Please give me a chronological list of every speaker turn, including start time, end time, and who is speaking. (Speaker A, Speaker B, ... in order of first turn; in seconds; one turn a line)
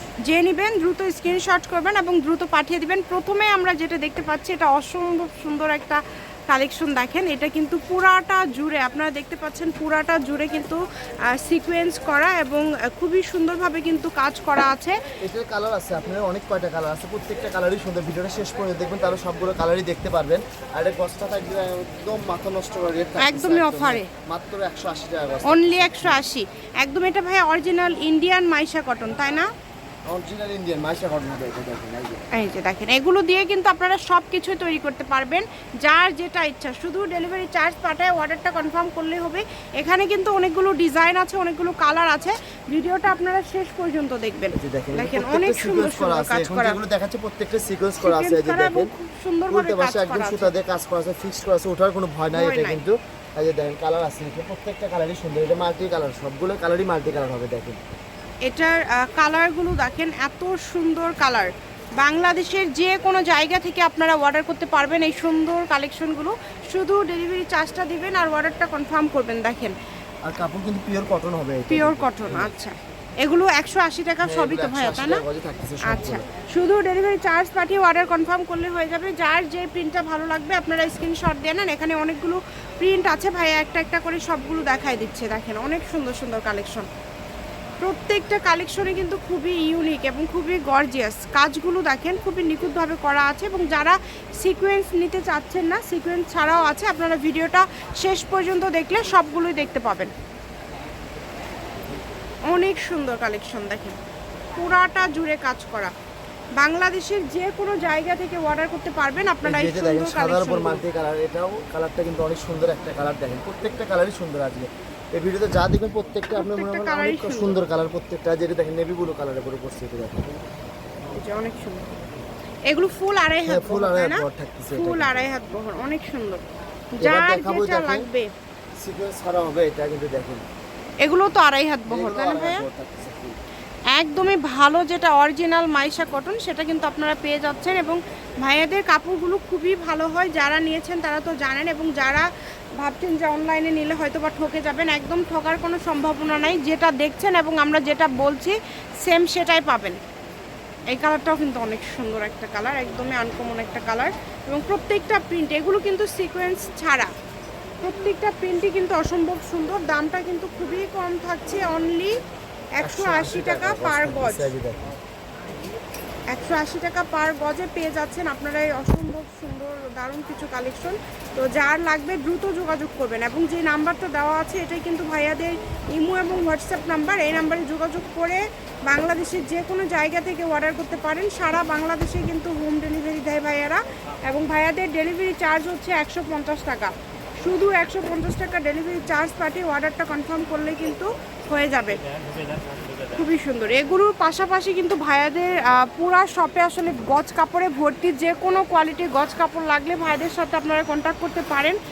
Speaker A: 0.2-15.0
Speaker B: 15.2-26.2
Speaker A: 23.2-24.1
Speaker A: 25.4-29.5
Speaker B: 30.1-32.2
Speaker A: 32.3-46.8
Speaker B: 44.5-48.9
Speaker A: 48.0-50.5
Speaker B: 49.5-57.8
Speaker A: 52.3-52.8
Speaker A: 58.5-69.8
Speaker B: 70.2-72.5
Speaker A: 71.7-75.2
Speaker B: 74.2-76.2
Speaker A: 75.8-86.9
Speaker A: 87.8-100.1
Speaker A: 102.5-104.0
Speaker A: 104.6-105.9
Speaker A: 106.6-110.8
Speaker B: 109.4-120.3
Speaker A: 116.3-117.6
Speaker A: 121.1-121.9
Speaker A: 122.7-126.4
Speaker B: 123.4-125.1
Speaker A: 126.9-128.3
Speaker B: 127.0-128.1
Speaker B: 128.8-130.4
Speaker A: 131.0-132.7
Speaker B: 131.9-133.4
Speaker A: 133.9-142.3
Speaker A: 142.8-150.0
Speaker A: 150.9-157.1
Speaker A: 157.8-162.2
Speaker A: 162.8-164.5
Speaker B: 162.8-164.8
Speaker A: 166.3-192.0
Speaker A: 193.1-201.8